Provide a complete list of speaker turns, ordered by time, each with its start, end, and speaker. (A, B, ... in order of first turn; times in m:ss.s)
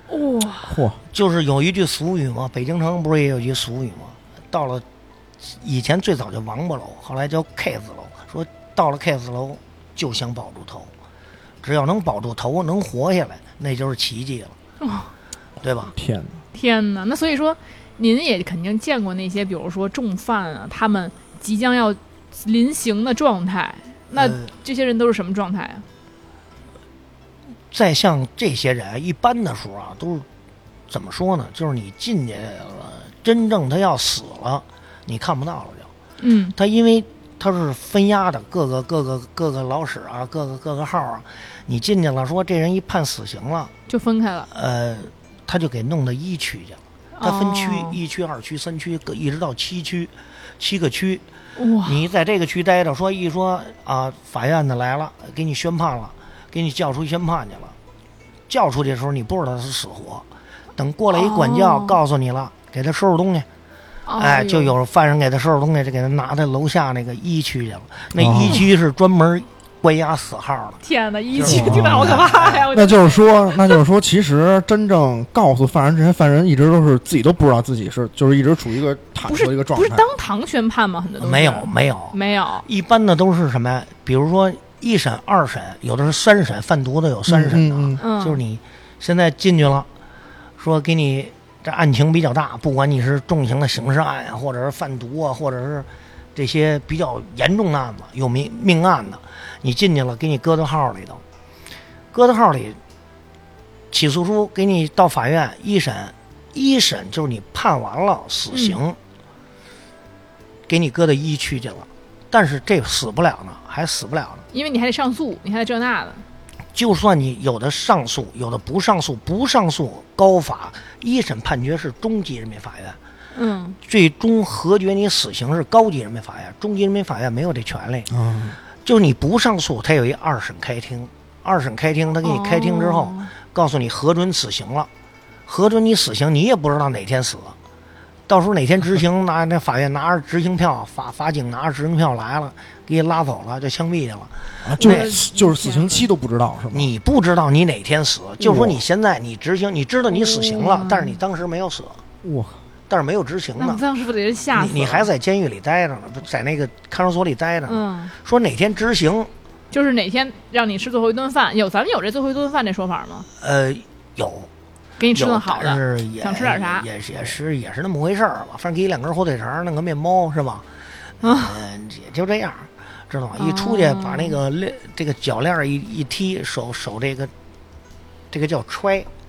0:00.1-0:00.8 A
0:00.6-0:01.0 B
0:01.1-0:04.8 C
0:05.5-0:10.9 C
0:11.6-0:14.6 C
0:14.8-0:15.1 A
0:15.6-0:15.9 C
0:15.9-0:16.4 B
0:16.5-0:25.8 A
0:24.1-0:24.4 C
0:27.7-0:30.3 C
0:30.9-0:35.9 C
0:36.2-0:36.6 A
0:36.6-0:43.7 C
0:43.9-0:44.5 A
0:44.5-0:51.2 C
0:47.2-0:48.0 A
0:51.6-0:52.0 A
0:51.8-0:57.8 C
0:58.5-1:03.5 C
1:01.1-1:02.0 A
1:04.1-1:04.8 A
1:04.2-1:10.8 C
1:08.2-1:08.7 B
1:10.8-1:13.8 A
1:11.3-1:12.7 C
1:11.4-1:20.1 B
1:19.3-1:22.7 A
1:21.2-1:29.9 C
1:27.3-1:28.0 B
1:28.0-1:28.4 A
1:30.6-1:41.2 C
1:42.1-1:42.8 C
1:43.9-1:49.0 C
1:48.5-1:48.8 A
1:50.7-1:54.4 C
1:54.5-1:56.2 A
1:56.7-2:03.0 C
2:03.4-2:03.8 A
2:03.8-2:08.1 C
2:08.1-2:08.6 B
2:08.8-2:14.9 C
2:12.2-2:13.3 A
2:15.5-2:17.6 C
2:18.3-2:25.1 C
2:24.6-2:26.9 B
2:24.8-2:26.1 A
2:26.7-2:32.0 C
2:28.4-2:28.8 B
2:30.1-2:31.2 A
2:32.2-2:32.6 B
2:32.9-2:33.8 C
2:33.6-2:35.1 A
2:34.5-2:39.3 C
2:37.7-2:38.1 A
2:39.7-2:43.3 A
2:43.4-2:44.5 C
2:45.0-2:46.9 A
2:45.1-2:50.7 C
2:51.2-2:57.3 C
2:51.2-2:51.6 A
2:53.4-2:54.4 A
2:58.3-2:59.1 C